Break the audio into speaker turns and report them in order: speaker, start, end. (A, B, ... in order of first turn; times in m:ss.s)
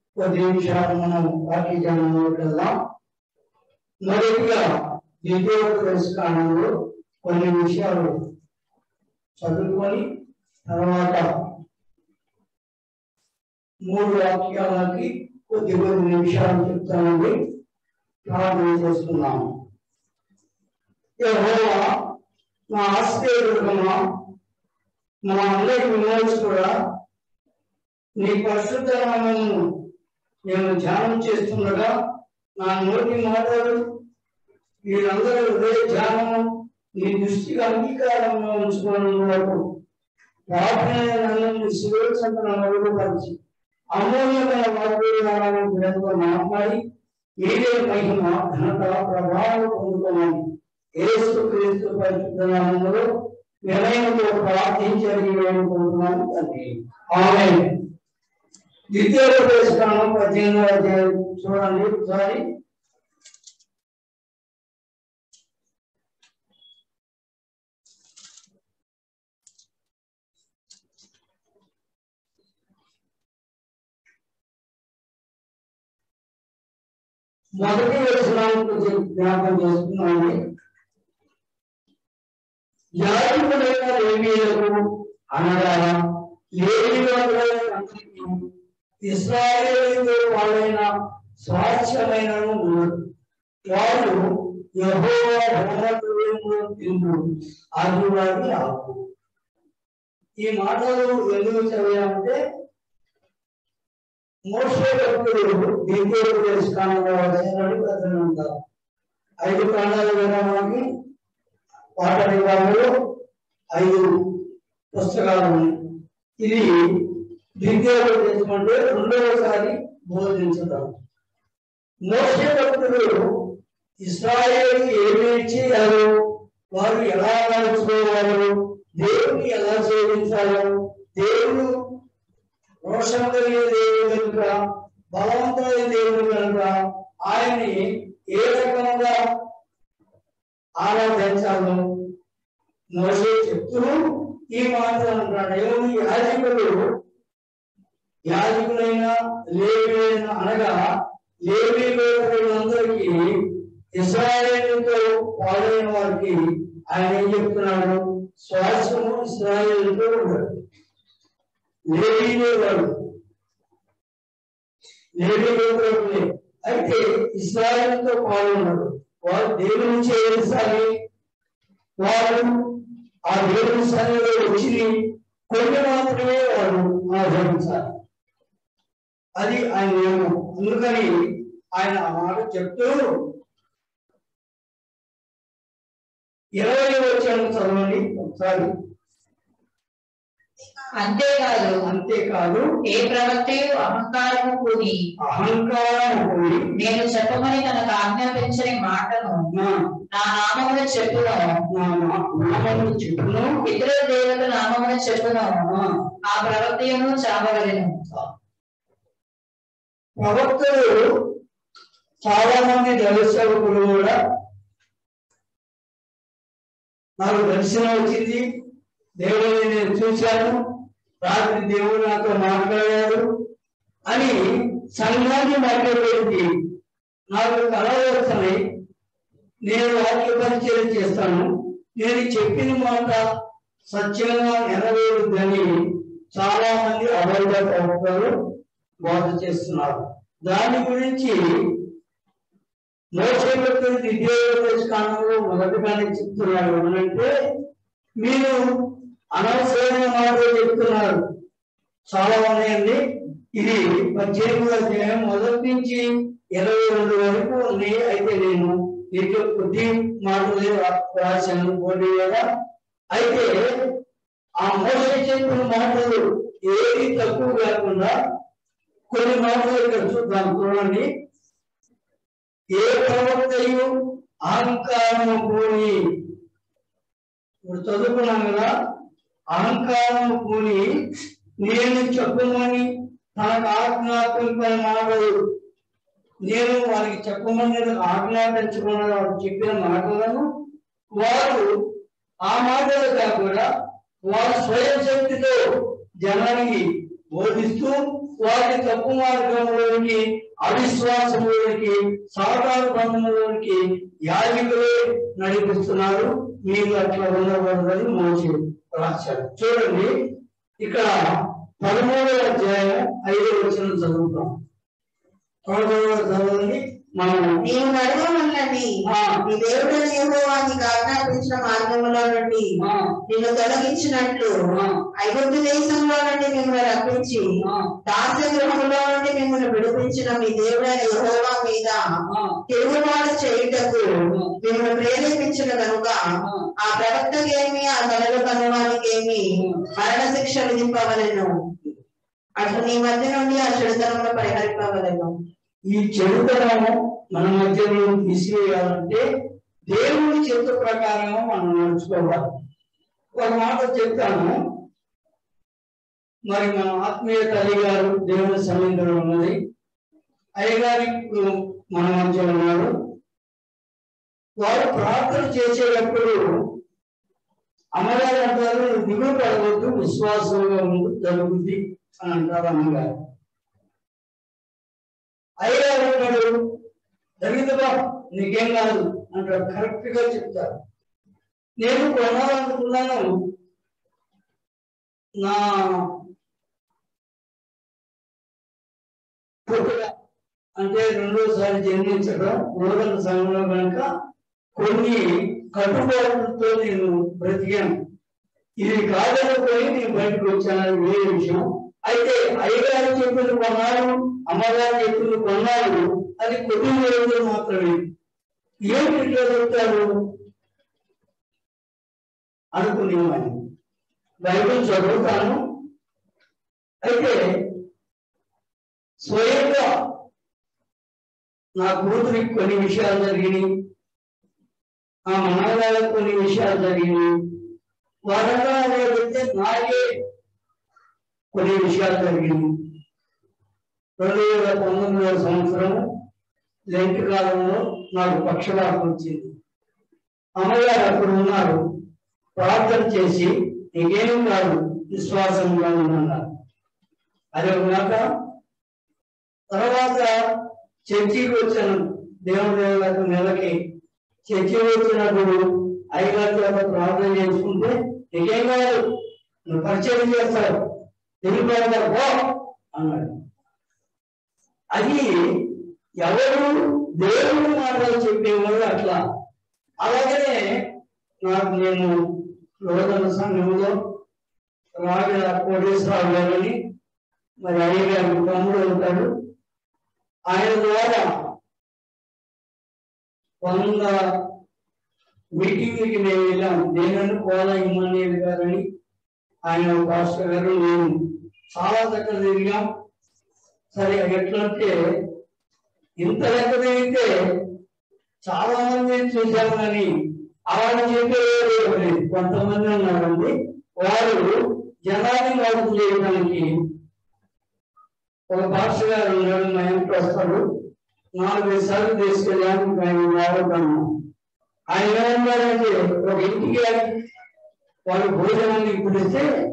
0:00.2-0:02.7 A
0:04.0-0:04.6 A
0:05.2-0:06.7 A
0:07.2-0:08.1 A
0:09.4-0:10.0 A
0:10.6-0:11.3 A
0:13.8-0:17.3 A
0:18.2-0:19.5 A
0:21.2-0:21.8 A
0:22.7-0:24.0 A
0:25.3-0:26.7 A
0:28.2-0:29.6 A
0:30.5-0:31.9 A
0:32.6-0:33.8 A
0:34.9-0:39.6 A
0:40.5-0:43.4 A
0:43.9-0:46.8 A
0:47.4-0:50.4 A
0:51.0-0:53.0 A
0:53.6-0:57.7 A
0:58.9-1:02.4 A
1:17.6-1:20.4 A
1:23.0-1:26.0 A
1:26.6-1:28.5 A
1:29.1-1:30.9 A
1:31.4-1:33.0 A
1:33.7-1:34.2 A
1:34.8-1:37.2 A
1:37.8-1:39.0 A
1:40.4-1:42.4 A
1:44.5-1:48.6 A
1:49.4-1:50.8 A
1:52.0-1:52.9 A
1:53.7-1:54.1 A
1:54.9-1:55.8 A
1:56.4-2:00.9 A
2:02.0-2:03.5 A
2:04.0-2:06.1 A
2:06.7-2:11.7 A
2:12.8-2:14.5 A
2:15.1-2:16.7 A
2:17.2-2:19.2 A
2:20.8-2:21.8 A
2:22.9-2:26.8 A
2:28.2-2:30.8 A
2:31.4-2:33.2 A
2:34.0-2:40.6 A
2:41.9-2:43.0 A
2:45.2-2:50.9 A
2:52.0-2:52.8 A
2:53.3-2:57.9 A
2:59.4-3:01.1 A
3:01.7-3:03.0 A
3:06.6-3:08.7 A
3:11.0-3:11.8 B
3:11.8-3:12.7 A
3:12.8-3:15.0 B
3:15.2-3:16.7 A
3:16.8-3:19.5 B
3:20.1-3:21.6 B
3:21.7-3:23.6 A
3:23.6-3:25.6 B
3:26.2-3:28.0 B
3:30.2-3:31.1 A
3:32.2-3:34.1 A
3:37.2-3:38.4 A
3:39.2-3:40.6 A
3:41.2-3:43.2 A
3:44.1-3:44.4 A
3:44.9-3:46.5 A
3:47.3-3:48.6 A
3:49.6-3:53.2 A
3:53.9-3:55.7 A
3:56.3-3:58.3 A
3:59.0-4:01.8 A
4:03.2-4:07.3 A
4:08.2-4:08.6 A
4:09.3-4:11.2 A
4:12.1-4:13.0 A
4:13.6-4:22.4 A
4:23.1-4:23.5 A
4:24.6-4:28.1 A
4:29.1-4:31.1 A
4:32.8-4:33.9 A
4:34.5-4:36.0 A
4:37.7-4:38.7 A
4:39.5-4:40.9 A
4:41.6-4:45.4 A
4:46.4-4:50.5 A
4:51.1-4:51.7 A
4:52.4-4:53.6 A
4:54.3-4:55.6 A
4:56.2-5:10.1 A
5:10.8-5:11.2 A
5:11.8-5:14.5 A
5:15.6-5:17.6 A
5:17.6-5:18.9 C
5:19.1-5:19.4 A
5:19.4-5:22.7 C
5:22.8-5:23.1 A
5:23.3-5:24.6 C
5:24.7-5:25.0 A
5:25.2-5:27.5 C
5:27.6-5:27.9 A
5:28.1-5:32.0 C
5:32.3-5:32.6 A
5:32.7-5:34.1 C
5:34.6-5:36.2 C
5:36.4-5:36.7 A
5:36.8-5:41.5 C
5:39.6-5:39.8 A
5:42.6-5:45.3 C
5:45.9-5:49.2 A
5:49.9-5:52.5 A
5:53.3-5:54.5 A
5:56.5-5:59.6 A
6:00.6-6:02.9 A
6:04.6-6:06.6 A
6:08.0-6:13.1 A
6:15.6-6:16.6 A
6:17.4-6:20.8 A
6:21.8-6:23.2 A
6:25.4-6:26.1 A
6:29.6-6:30.1 A
6:30.8-6:34.1 A
6:34.8-6:37.9 A
6:38.8-6:48.1 A
6:48.9-6:50.1 A
6:52.7-6:53.6 A
6:54.4-6:55.6 A
6:57.0-6:57.4 A
6:59.2-6:59.9 A
7:01.8-7:03.7 A
7:05.3-7:07.3 A
7:08.3-7:10.1 A
7:11.5-7:12.7 A
7:14.2-7:16.0 A
7:16.9-7:19.5 A
7:20.6-7:21.8 A
7:22.6-7:26.4 A
7:27.5-7:28.2 A
7:29.7-7:30.3 A
7:31.1-7:33.8 A
7:34.4-7:39.0 A
7:39.7-7:40.8 A
7:41.4-7:43.4 A
7:44.9-7:49.2 A
7:50.0-7:50.6 A
7:51.4-7:52.2 A
7:52.8-7:54.0 A
7:55.0-7:56.8 A
7:57.6-7:59.3 A
8:00.5-8:01.3 A
8:03.6-8:04.2 A
8:05.6-8:08.8 A
8:09.7-8:11.2 A
8:11.8-8:12.8 A
8:13.9-8:14.9 A
8:16.2-8:17.3 A
8:18.4-8:20.1 A
8:20.7-8:24.5 A
8:25.0-8:26.7 A
8:28.5-8:30.6 A
8:31.4-8:34.1 A
8:34.9-8:37.1 A
8:38.1-8:39.4 A